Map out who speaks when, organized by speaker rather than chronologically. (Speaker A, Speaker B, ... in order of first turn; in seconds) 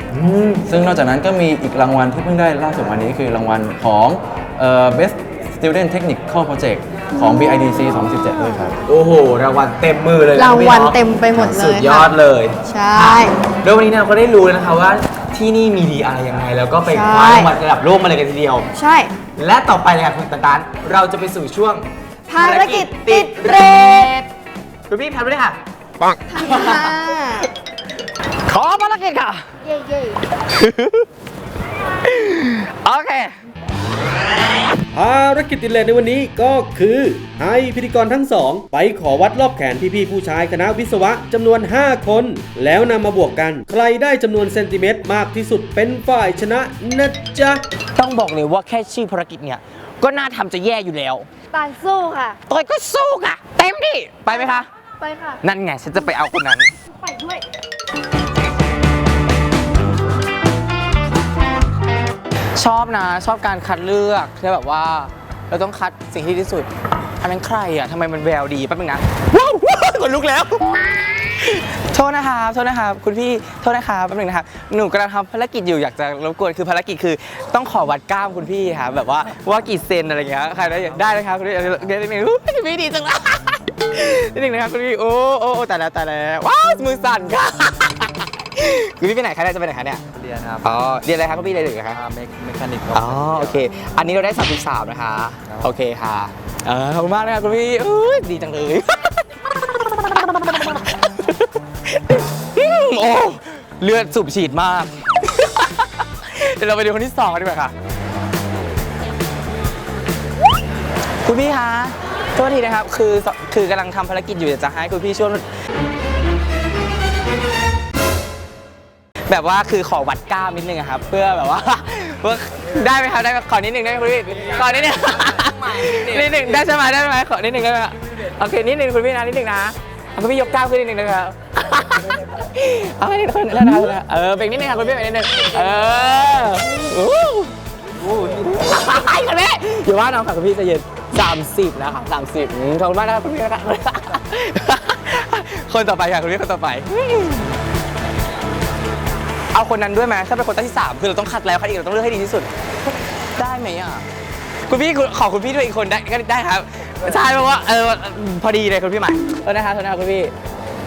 Speaker A: 0.1-0.7, 8.9-18.7, 19.4-21.9, 22.4-24.3, 24.9-25.6, 26.4-27.2, 28.4-29.4, 30.5-31.0, 32.0-33.4, 47.9-51.3, 52.5-54.7, 55.4-56.7, 62.5-66.7, 67.2-70.7, 71.5-90.0, 90.6-92.0, 92.9-107.7, 111.2-115.5, 119.3-147.5, 149.5-152.5, 153.3-154.0, 154.7-160.3
Speaker B: 0.7-8.8
Speaker C: 7.1-8.7, 10.3-12.1, 12.6-13.3, 16.8-17.5, 18.7-19.1, 22.3-24.1, 26.3-27.5, 29.6-30.2, 51.5-52.4, 54.3-55.4, 57.0-57.4
Speaker D: 34.9-47.6